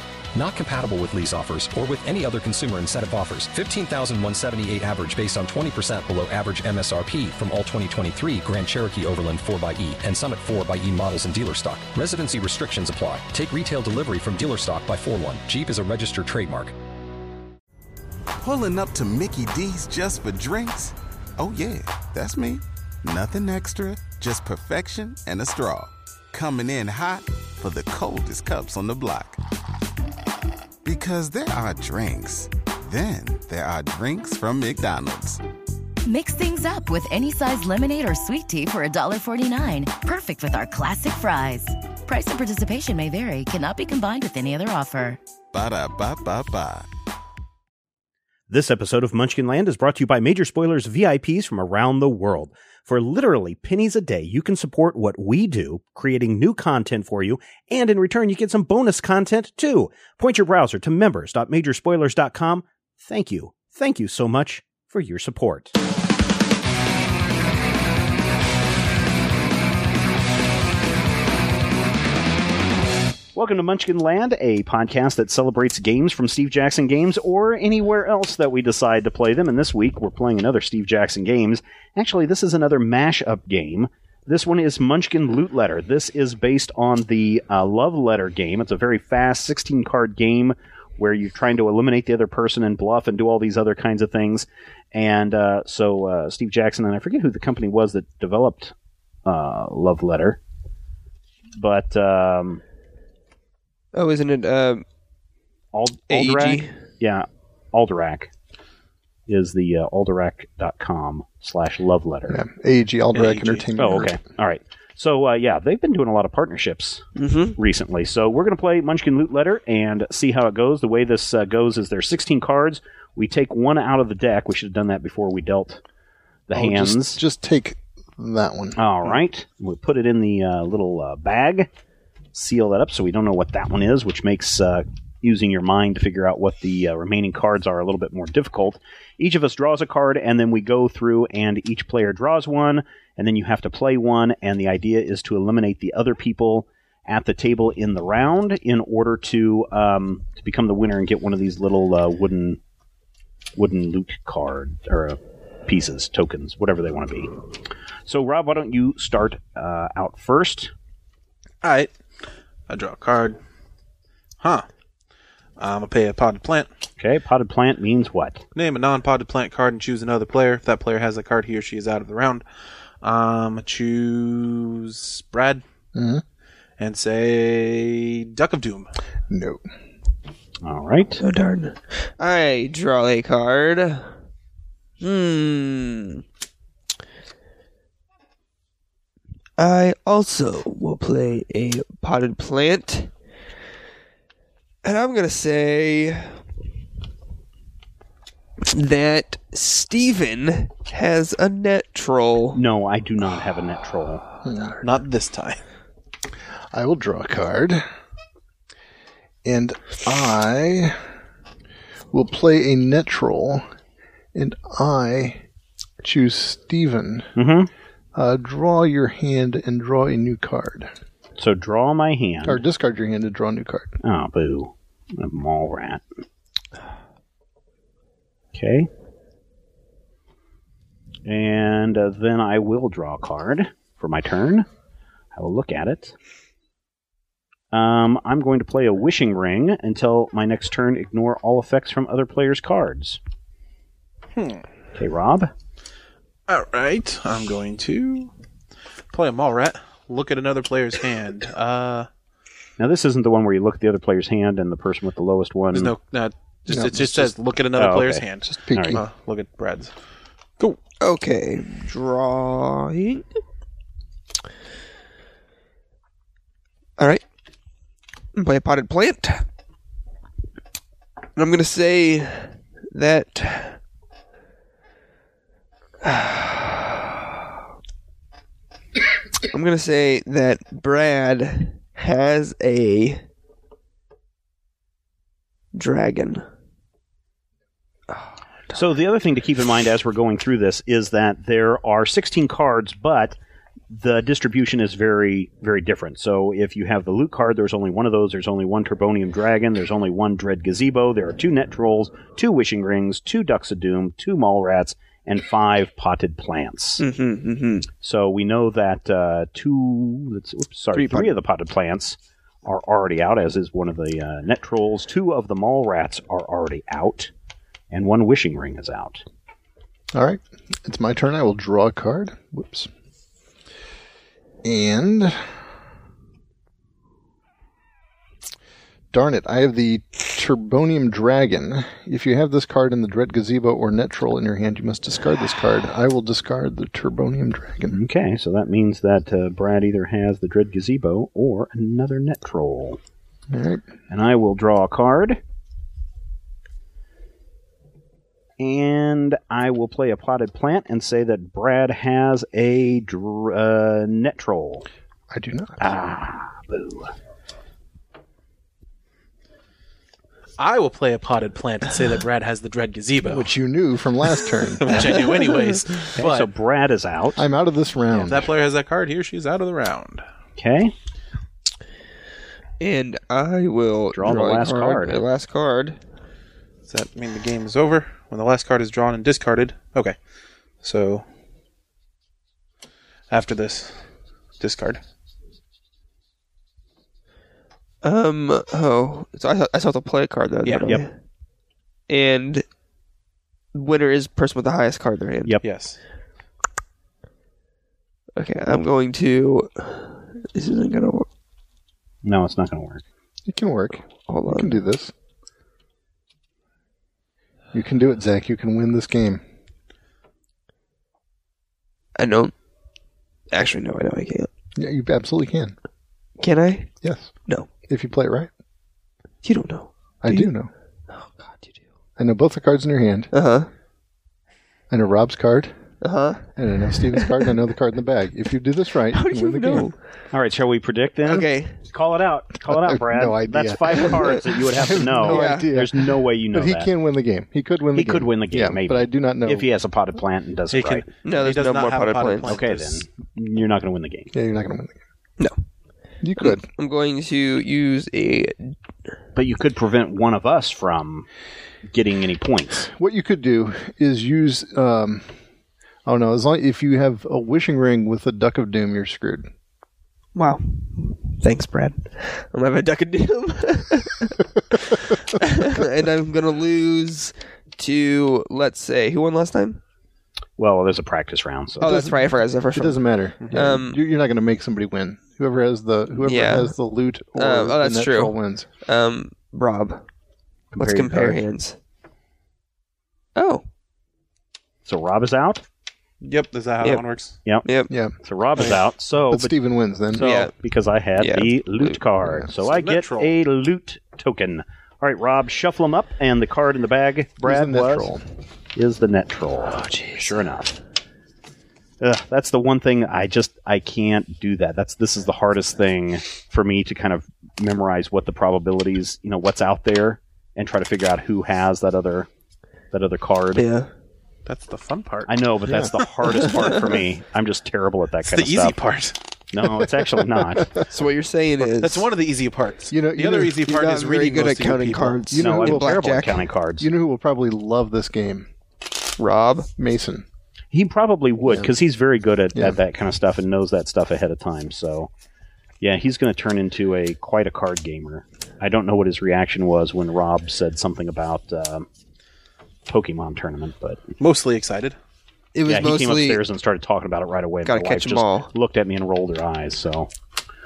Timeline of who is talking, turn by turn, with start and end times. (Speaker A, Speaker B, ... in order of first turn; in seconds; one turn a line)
Speaker A: 0.3-16.7
Speaker B: 18.4-29.4
Speaker B: 30.8-35.4
Speaker C: 36.0-45.2
Speaker B: 45.5-46.9
Speaker D: 48.5-65.7
Speaker D: 73.3-98.7
Speaker D: 99.2-100.4
Speaker D: 101.6-102.6
Speaker E: 103.9-104.8
Speaker D: 105.7-108.3
Speaker E: 106.1-106.7
Speaker D: 109.3-112.4
Speaker F: 112.3-114.2
Speaker G: 113.1-113.7
Speaker D: 113.8-125.8
Speaker E: 117.2-117.5
Speaker D: 126.5-127.2
Speaker F: 126.5-128.8
Speaker D: 128.8-131.7
Speaker D: 132.3-152.6
Speaker D: 153.6-157.3
Speaker D: 158.1-160.7
Speaker G: 161.6-161.9
Speaker G: 162.7-163.4
Speaker G: 165.6-166.7
Speaker D: 167.0-168.4
Speaker G: 168.5-172.4
Speaker G: 173.0-175.6
Speaker F: 175.9-176.2
Speaker G: 176.8-178.9
Speaker F: 179.3-179.6
Speaker D: 180.6-181.2
Speaker E: 181.2-184.1
Speaker E: 185.0-186.2
Speaker E: 189.6-193.1
Speaker E: 194.8-196.4
Speaker E: 198.7-202.6
Speaker D: 202.5-204.2
Speaker F: 204.4-204.8
Speaker G: 204.8-205.6
Speaker F: 206.7-207.8
Speaker F: 209.4-211.0
Speaker F: 212.1-213.6
Speaker F: 214.3-215.4
Speaker F: 216.0-217.3
Speaker D: 217.3-217.7
Speaker F: 218.1-220.9
Speaker D: 221.4-222.6
Speaker F: 222.4-224.0
Speaker D: 224.0-226.0
Speaker D: 228.5-228.9
Speaker D: 231.2-234.7
Speaker D: 235.3-236.1
Speaker D: 237.7-243.2
Speaker G: 244.4-244.6
Speaker D: 244.9-245.5
Speaker G: 246.5-248.3
Speaker G: 249.1-252.1
Speaker D: 252.8-255.9
Speaker G: 255.7-259.9
Speaker F: 256.7-257.3
Speaker D: 257.8-259.0
Speaker F: 258.5-259.0
Speaker E: 261.0-263.2
Speaker E: 267.0-267.2
Speaker E: 268.3-269.4
Speaker E: 271.4-273.8
Speaker E: 276.0-276.9
Speaker E: 279.5-283.2
Speaker E: 285.7-286.4
Speaker D: 288.7-293.4
Speaker D: 293.9-307.0
Speaker E: 307.0-307.9
Speaker D: 308.0-317.3
Speaker E: 310.9-311.4
Speaker D: 317.9-319.2
Speaker F: 320.1-322.9
Speaker F: 324.6-325.4
Speaker F: 329.1-338.0
Speaker D: 337.9-343.0
Speaker F: 343.5-343.9
Speaker D: 344.1-345.4
Speaker D: 348.6-354.9
Speaker F: 355.3-355.9
Speaker D: 355.8-357.1
Speaker G: 360.6-363.5
Speaker F: 363.2-365.1
Speaker G: 364.8-366.5
Speaker E: 365.3-365.7
Speaker D: 366.2-367.4
Speaker F: 367.4-368.5
Speaker G: 368.1-370.2
Speaker D: 370.6-370.9
Speaker E: 372.8-376.0
Speaker D: 374.1-375.2
Speaker G: 376.9-380.1
Speaker G: 380.8-381.2
Speaker G: 383.3-384.0
Speaker G: 384.6-385.0
Speaker E: 388.0-391.1
Speaker E: 392.1-392.6
Speaker E: 393.7-395.6
Speaker G: 395.6-396.0
Speaker E: 398.4-401.3
Speaker D: 402.2-403.0
Speaker F: 403.4-405.1
Speaker E: 404.3-404.8
Speaker F: 407.7-409.4
Speaker E: 412.2-412.5
Speaker E: 413.5-414.5
Speaker F: 414.8-415.7
Speaker E: 416.4-416.9
Speaker F: 417.0-417.3
Speaker F: 417.9-418.5
Speaker E: 419.4-420.5
Speaker F: 420.2-420.7
Speaker E: 421.1-421.7
Speaker F: 422.2-423.3
Speaker E: 423.3-423.7
Speaker F: 424.9-425.7
Speaker E: 426.0-426.5
Speaker F: 426.6-429.9
Speaker E: 427.1-427.4
Speaker E: 429.1-430.0
Speaker D: 430.3-436.9
Speaker E: 431.2-431.7
Speaker F: 432.6-439.7
Speaker E: 435.2-435.6
Speaker D: 437.9-441.1
Speaker G: 440.7-443.0
Speaker E: 441.2-442.5
Speaker D: 442.4-444.3
Speaker F: 444.3-444.9
Speaker F: 446.2-446.7
Speaker E: 446.4-448.8
Speaker D: 449.3-451.3
Speaker D: 451.9-452.9
Speaker F: 452.9-455.3
Speaker F: 456.1-459.5
Speaker E: 460.3-469.8
Speaker D: 470.6-472.0
Speaker E: 471.8-474.0
Speaker F: 471.8-472.2
Speaker F: 472.7-478.7
Speaker E: 476.2-476.7
Speaker E: 477.3-478.3
Speaker E: 478.9-480.0
Speaker D: 480.7-481.4
Speaker E: 480.8-481.8
Speaker E: 483.4-483.6
Speaker D: 484.9-485.6
Speaker G: 486.2-487.4
Speaker E: 487.6-487.9
Speaker F: 487.9-488.1
Speaker D: 488.2-489.5
Speaker F: 489.3-490.2
Speaker D: 490.1-498.1
Speaker E: 490.1-490.5
Speaker E: 491.2-492.0
Speaker G: 492.7-493.4
Speaker F: 497.4-498.2
Speaker D: 498.7-500.8
Speaker E: 499.7-500.3
Speaker D: 502.0-512.3
Speaker D: 512.9-513.6
Speaker E: 513.5-513.9
Speaker G: 514.5-516.1
Speaker D: 515.3-518.8
Speaker F: 515.6-516.5
Speaker G: 518.2-519.1
Speaker D: 519.5-520.8
Speaker F: 519.8-520.7
Speaker E: 520.9-522.1
Speaker G: 521.8-525.2
Speaker F: 522.9-523.6
Speaker E: 523.6-526.4
Speaker F: 525.3-526.0
Speaker D: 525.3-526.9
Speaker F: 526.8-528.5
Speaker E: 529.2-529.7
Speaker F: 529.8-530.2
Speaker D: 530.7-535.1
Speaker F: 531.5-531.7
Speaker F: 532.5-532.8
Speaker D: 535.8-541.9
Speaker D: 542.9-544.0
Speaker G: 544.2-545.0
Speaker E: 545.5-546.4
Speaker D: 545.6-550.1
Speaker E: 547.6-548.5